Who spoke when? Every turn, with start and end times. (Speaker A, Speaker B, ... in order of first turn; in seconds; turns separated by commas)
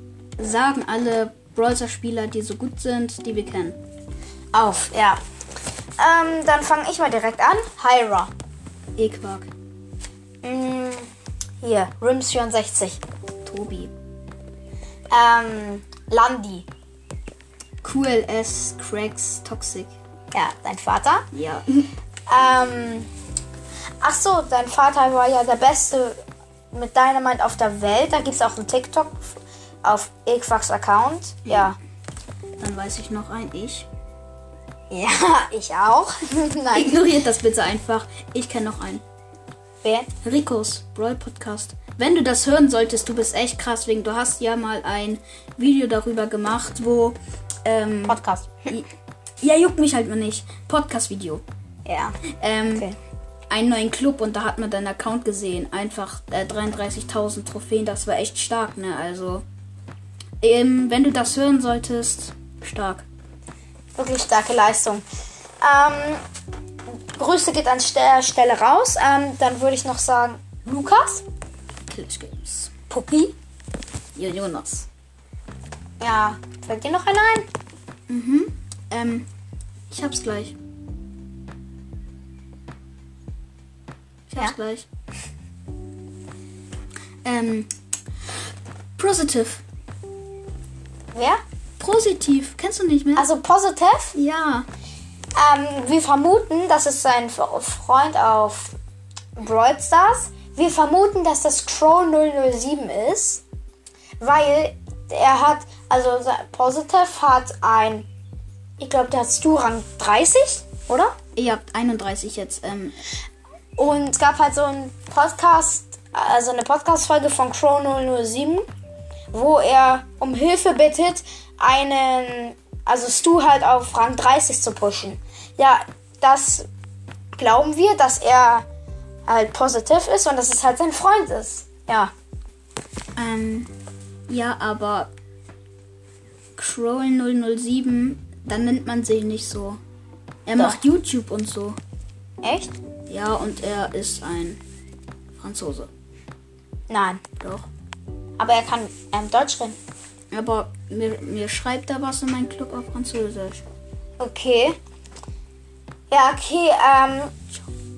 Speaker A: 0.4-3.8, Speaker B: 4.5-5.2, Speaker B: 6.0-8.3, Speaker A: 8.9-9.5, Speaker B: 10.4-11.1, Speaker B: 11.6-13.0, Speaker A: 13.4-13.9, Speaker B: 15.1-16.7, Speaker A: 17.8-19.9, Speaker B: 20.3-21.3, Speaker A: 21.3-21.9, Speaker B: 22.3-23.1, Speaker B: 24.0-26.1, Speaker B: 26.7-31.8, Speaker A: 32.6-33.9, Speaker B: 34.9-37.0, Speaker A: 36.7-39.0, Speaker B: 39.8-40.1, Speaker A: 40.2-48.2, Speaker B: 48.1-48.8, Speaker A: 49.4-51.4, Speaker B: 51.8-52.2, Speaker A: 52.4-52.9, Speaker B: 52.7-53.0, Speaker A: 53.5-59.4, Speaker A: 60.4-63.0, Speaker B: 64.0-65.0, Speaker B: 65.6-66.2, Speaker B: 66.9-71.2, Speaker A: 71.9-72.7, Speaker B: 72.9-73.3, Speaker A: 74.1-74.8, Speaker B: 76.0-77.5, Speaker A: 78.1-79.2, Speaker A: 79.9-80.5, Speaker A: 84.3-84.8, Speaker A: 87.2-87.7, Speaker A: 89.0-89.6, Speaker B: 91.1-91.4, Speaker A: 91.8-93.3, Speaker B: 93.2-94.2, Speaker A: 94.1-94.7, Speaker B: 95.3-98.8, Speaker B: 99.4-103.4, Speaker B: 104.2-108.0, Speaker B: 108.8-111.2, Speaker A: 111.3-113.0, Speaker B: 113.8-118.7, Speaker B: 119.3-126.7, Speaker B: 127.3-128.7, Speaker B: 129.3-132.1, Speaker A: 133.2-133.7, Speaker A: 134.3-135.1, Speaker A: 136.6-139.8, Speaker A: 140.4-141.8, Speaker B: 142.4-142.8, Speaker A: 143.1-144.6, Speaker A: 145.4-145.9, Speaker B: 146.9-147.2, Speaker A: 147.4-147.7, Speaker B: 148.4-149.8, Speaker A: 150.3-153.6, Speaker B: 154.2-154.8, Speaker B: 156.1-157.3